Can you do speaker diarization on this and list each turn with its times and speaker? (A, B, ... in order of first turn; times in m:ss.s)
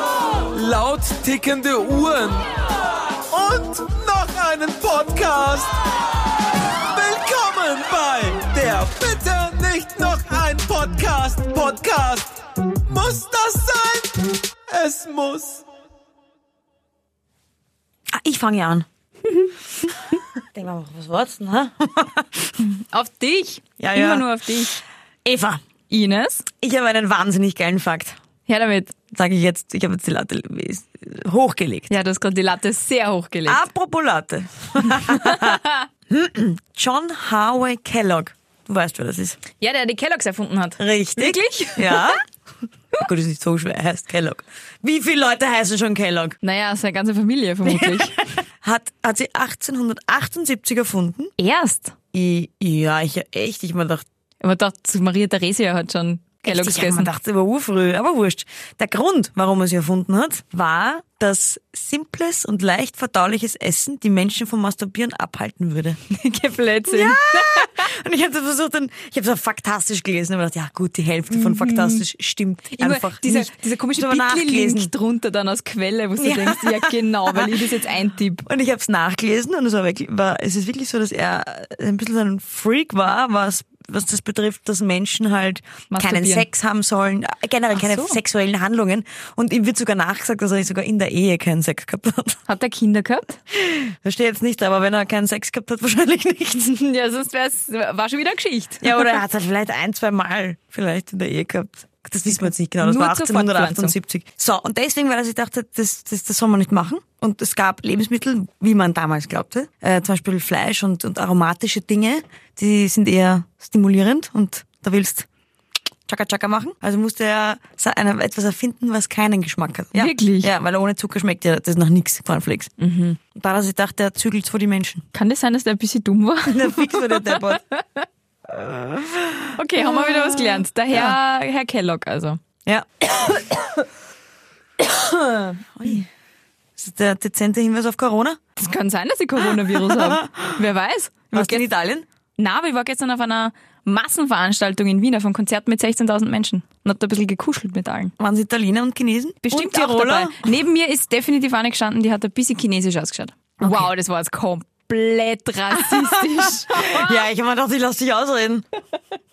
0:00.4-0:02.5 A
0:03.3-0:05.8 A
0:06.8-0:15.6 A
0:18.1-0:18.9 B
0:20.4-0:22.5 B
0:22.6-0:24.8 C
0:23.8-0:24.3 B
0:25.2-0:25.6 B
0:25.9-0:26.5 C
0:26.6-0:28.2 B
0:28.5-0:28.9 C
0:29.1-0:31.9 B
0:31.9-0:33.6 C
0:33.5-0:39.4 B
0:35.0-0:35.8 C
0:39.6-0:42.2 C
0:40.8-0:42.2 B
0:42.9-0:46.4 B
0:46.4-0:48.2 C
0:47.6-0:51.3 B
0:51.4-0:52.0 C
0:52.1-0:54.0 B
0:54.4-0:57.1 C
0:56.4-1:06.0 B
1:06.1-1:07.9 C
1:06.9-1:14.9 B
1:11.3-1:12.0 C
1:12.7-1:18.5 C
1:16.2-1:17.6 B
1:18.5-1:32.4 B
1:25.9-1:26.5 C
1:27.8-1:28.2 C
1:32.5-1:33.4 C
1:33.5-1:36.7 B
1:36.6-1:39.1 C
1:38.8-1:55.3 B
1:42.8-1:44.0 C
1:56.1-2:02.7 B
2:00.0-2:00.5 C
2:02.8-2:03.2 C
2:03.3-2:05.0 B
2:05.1-2:08.1 C
2:06.5-2:07.6 B
2:08.4-2:11.2 B
2:09.6-2:12.4 C
2:12.7-2:13.7 B
2:14.8-2:16.1 B
2:16.8-2:18.4 B
2:18.6-2:21.6 C
2:19.4-2:20.6 B
2:21.3-2:22.1 B
2:22.4-2:28.1 C
2:28.2-2:30.5 B
2:29.4-2:37.2 C
2:33.6-2:33.9 B
2:35.8-2:38.6 B